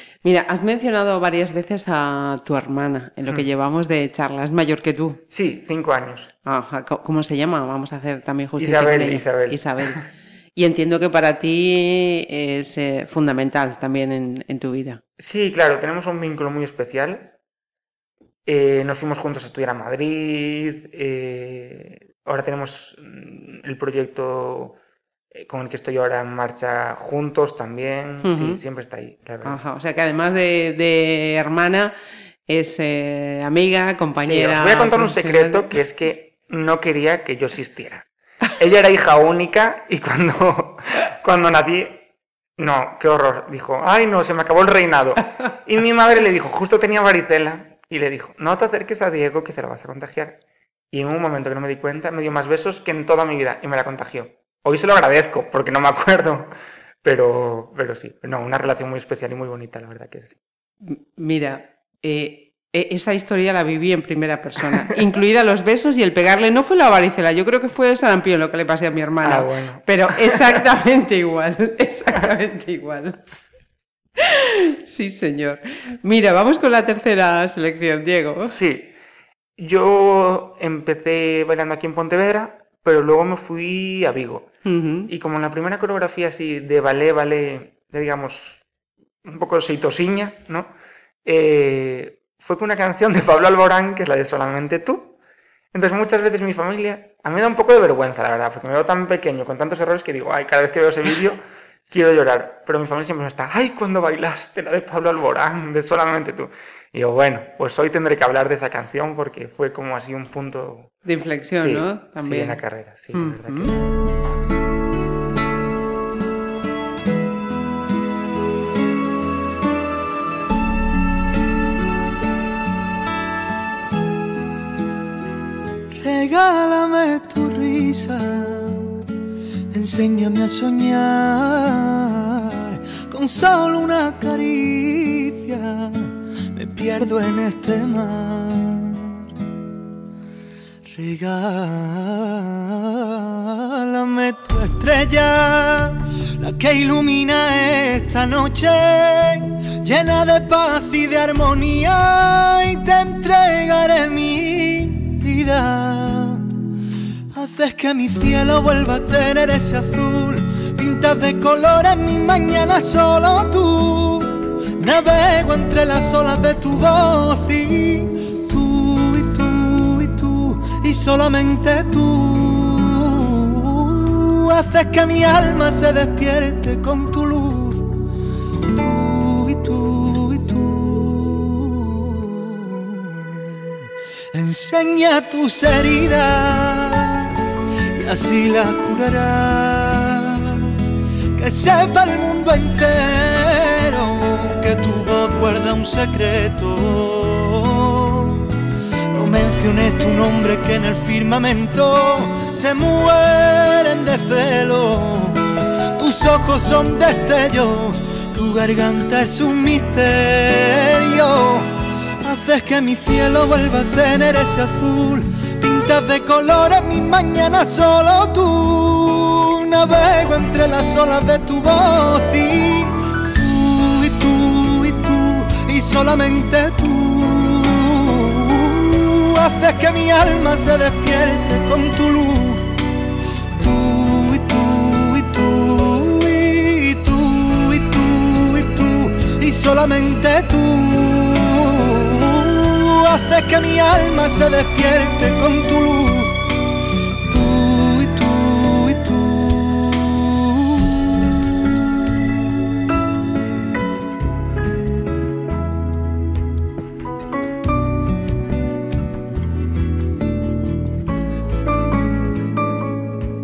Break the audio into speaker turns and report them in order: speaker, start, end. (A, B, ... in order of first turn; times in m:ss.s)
0:00.2-0:05.2 A
0:05.3-0:06.3 B
0:06.5-0:10.0 A
0:08.6-0:10.0 B
0:10.6-0:15.0 A
0:15.2-0:17.3 B
0:18.5-0:24.8 B
0:25.3-0:29.6 B
0:28.2-0:28.6 A
0:29.4-0:31.9 A
0:32.5-0:35.7 A
0:34.2-0:42.0 B
0:42.6-0:50.4 B
0:50.9-0:56.5 B
0:57.0-1:00.4 B
1:00.9-1:13.2 A
1:09.2-1:10.6 B
1:14.2-1:18.5 A
1:18.5-1:18.9 B
1:19.6-1:24.5 B
1:24.6-1:25.1 A
1:25.1-1:28.6 B
1:29.2-1:30.7 B
1:31.2-1:35.2 B
1:35.7-1:51.0 B
1:51.0-1:52.6 A
1:51.6-1:53.9 B
1:53.1-1:53.8 A
2:05.9-2:08.9 C
2:09.7-2:19.3 C
2:20.9-2:36.5 C
2:37.3-2:57.9 C
2:58.7-3:03.8 C
3:04.3-3:07.4 C
3:07.9-3:10.8 C
3:11.4-3:18.5 C
3:19.1-3:52.7 C
3:53.6-4:06.4 C
4:07.3-4:11.1 C